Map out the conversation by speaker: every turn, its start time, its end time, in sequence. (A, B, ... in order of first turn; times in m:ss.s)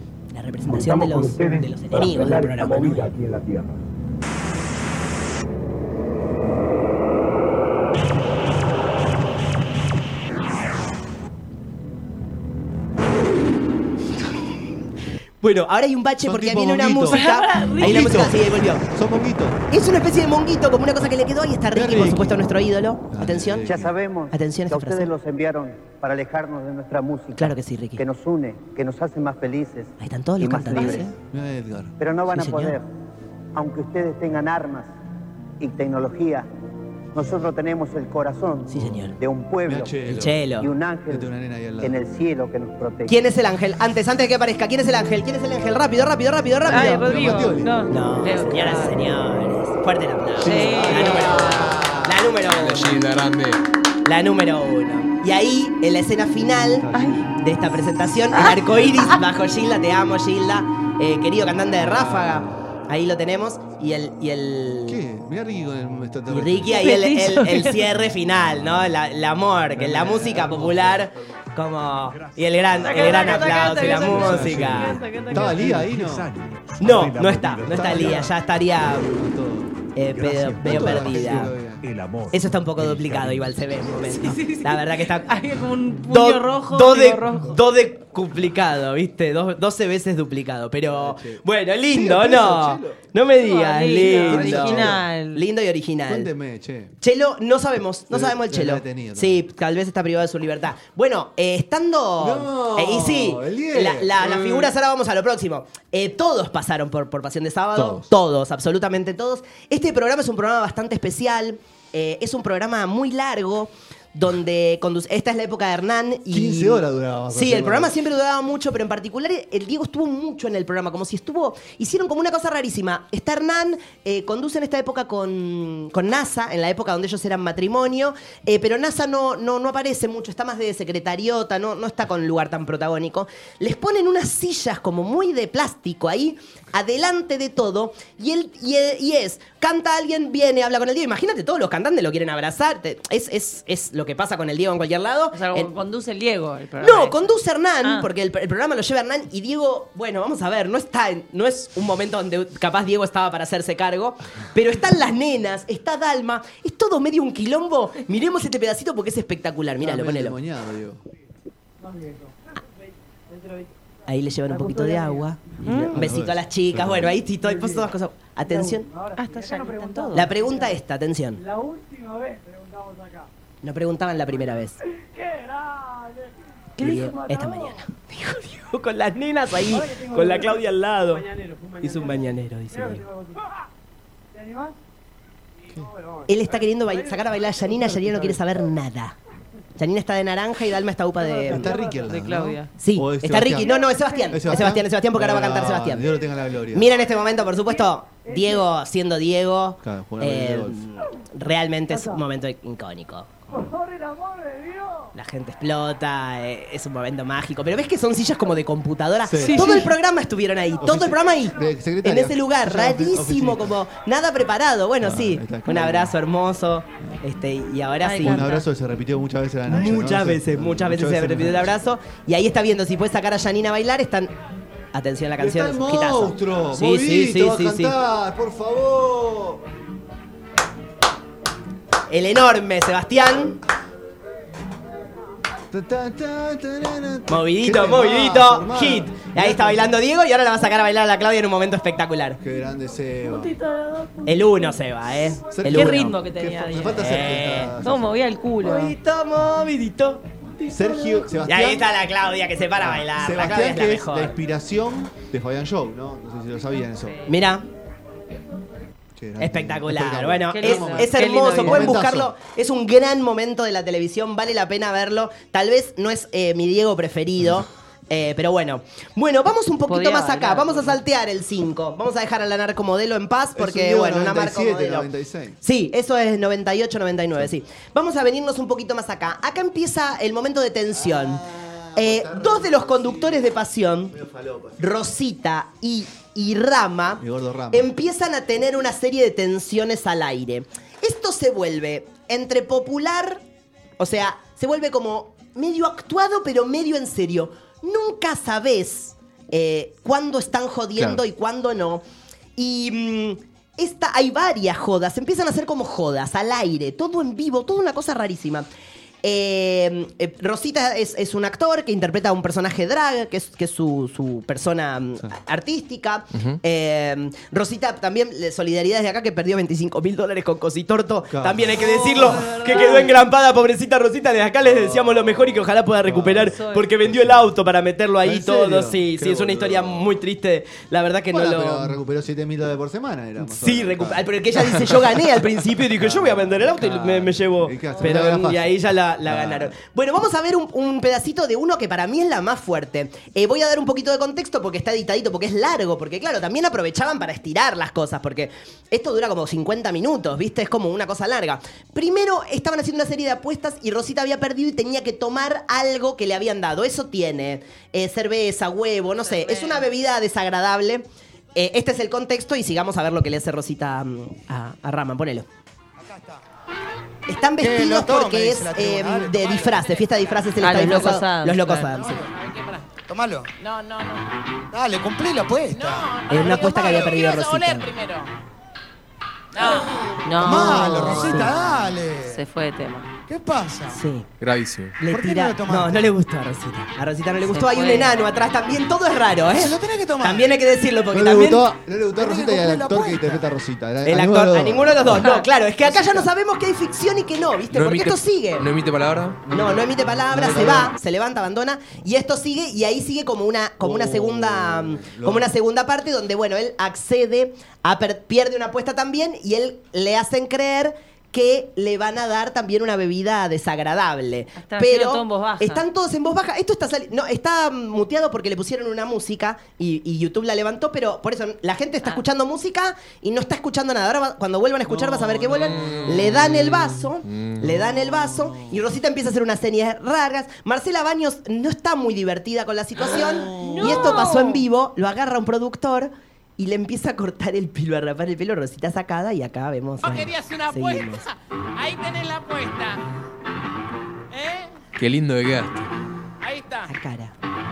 0:00.3-0:03.1 A
0:00.6-0:03.8 B
0:15.4-0:18.8 A
0:16.2-0:19.6 C
0:17.1-0:18.2 D
0:19.7-0:23.6 A
0:21.7-0:22.5 C
0:23.1-0:24.0 C
0:23.6-0:31.1 E
0:24.3-0:25.1 A
0:27.4-0:28.0 A
0:30.0-0:31.1 A
0:31.1-0:32.0 C
0:32.0-0:32.9 E
0:32.3-0:32.8 A
0:33.5-0:34.9 E
0:35.6-0:36.5 E
0:37.1-0:39.9 E
0:38.7-0:39.1 A
0:39.6-0:40.4 C
0:40.1-0:40.7 A
0:40.6-0:43.2 E
0:41.1-0:42.0 C
0:43.1-0:47.0 A
0:46.6-0:47.8 C
0:46.7-0:49.0 D
0:47.9-0:52.9 A
0:50.4-0:51.5 D
0:50.5-0:52.2 C
0:52.5-0:53.6 F
0:54.0-1:05.0 A
0:56.8-0:57.3 C
0:56.9-0:57.3 D
0:58.4-0:58.6 D
1:01.8-1:02.6 C
1:04.9-1:06.7 C
1:06.3-1:15.0 A
1:06.7-1:07.8 D
1:09.7-1:11.3 C
1:12.1-1:18.3 G
1:12.8-1:15.7 D
1:13.7-1:16.3 C
1:16.8-1:19.2 A
1:17.6-1:18.3 C
1:19.0-1:19.8 C
1:19.9-1:21.5 A
1:20.0-1:24.2 G
1:20.6-1:21.8 C
1:22.3-1:25.3 A
1:24.2-1:27.6 D
1:26.1-1:36.3 A
1:30.9-1:33.0 C
1:33.4-1:35.4 D
1:34.0-1:35.0 C
1:36.1-1:36.9 C
1:37.0-2:25.7 A
1:38.1-1:39.4 C
1:42.2-1:44.7 C
1:47.7-1:48.1 C
1:56.3-1:57.9 C
2:25.3-2:27.3 D
2:26.8-2:40.4 A
2:39.8-2:41.0 C
2:44.1-2:48.9 A
2:45.6-2:47.2 C
2:45.6-2:46.0 D
2:49.2-2:50.3 D
2:50.1-2:51.4 A
2:53.6-2:54.8 A
2:56.8-3:03.1 A
2:56.8-2:57.1 D
3:06.3-3:09.2 A
3:09.8-3:11.7 A
3:11.4-3:17.0 C
3:11.7-3:12.7 D
3:12.8-3:16.1 A
3:16.7-3:23.3 A
3:19.8-3:20.9 C
3:25.1-3:38.4 A
3:29.2-3:29.9 C
3:29.4-3:29.9 D
3:30.8-3:33.8 C
3:35.0-3:36.2 C
3:38.0-3:38.7 D
3:38.2-3:41.7 C
3:39.7-3:44.3 A
3:44.9-3:47.9 A
3:45.4-3:49.6 C
3:52.1-3:53.6 A
3:55.7-3:59.9 C
3:57.3-4:02.4 A
4:02.4-4:03.5 C
4:03.2-4:04.7 D
4:04.2-4:06.1 A
4:05.4-4:08.2 C
4:05.7-4:08.9 D
4:07.0-4:07.7 A
4:08.6-4:10.2 A
4:10.6-4:11.3 D
4:10.7-4:11.9 C
4:11.4-4:14.3 A
4:12.8-4:17.2 C
4:17.3-4:17.6 A
4:19.2-4:22.3 C
4:19.4-4:35.1 A
4:20.5-4:22.0 D
4:29.9-4:31.0 D
4:33.6-4:35.6 C
4:35.6-4:41.4 A
4:40.9-4:44.9 C
4:41.9-4:44.1 A
4:44.8-4:53.4 A
4:47.2-4:47.9 C
4:54.0-5:02.0 A
5:02.6-5:08.7 A
5:09.2-5:32.0 A
5:21.3-5:22.8 C
5:21.8-5:23.1 D
5:24.6-5:27.5 C
5:26.4-5:26.9 D
5:28.2-5:30.0 C
5:31.3-5:35.0 C
5:33.4-6:05.4 A
5:36.0-5:39.7 C
5:59.4-5:59.8 H
6:06.0-6:06.4 I
6:07.3-6:12.3 A
6:07.6-6:09.9 I
6:09.5-6:10.8 H
6:10.6-6:12.0 D
6:11.9-6:12.9 H
6:13.0-6:13.5 I
6:13.6-6:14.2 H
6:14.7-6:17.1 I
6:15.7-6:18.3 H
6:16.3-6:17.9 A
6:19.5-6:20.0 H
6:20.2-6:21.5 D
6:20.3-6:22.4 I
6:20.5-6:21.5 A
6:22.2-6:23.1 D
6:23.3-6:24.0 I
6:23.9-6:24.3 A
6:24.4-6:25.0 F
6:25.0-6:31.7 A
6:25.0-6:26.1 I
6:27.5-6:28.2 D
6:29.5-6:30.6 I
6:31.1-6:36.3 C
6:32.2-6:33.5 I
6:34.0-6:38.7 A
6:35.2-6:35.4 D
6:37.7-6:39.4 F
6:39.5-7:21.2 A
6:39.5-6:40.9 C
6:43.8-6:45.5 C
6:54.6-6:55.8 D
7:05.0-7:07.6 F
7:13.3-7:14.0 C
7:13.5-7:14.6 D
7:20.0-7:23.0 H
7:24.3-7:24.7 H
7:25.0-7:25.9 F
7:26.4-7:26.9 H
7:26.9-7:27.3 A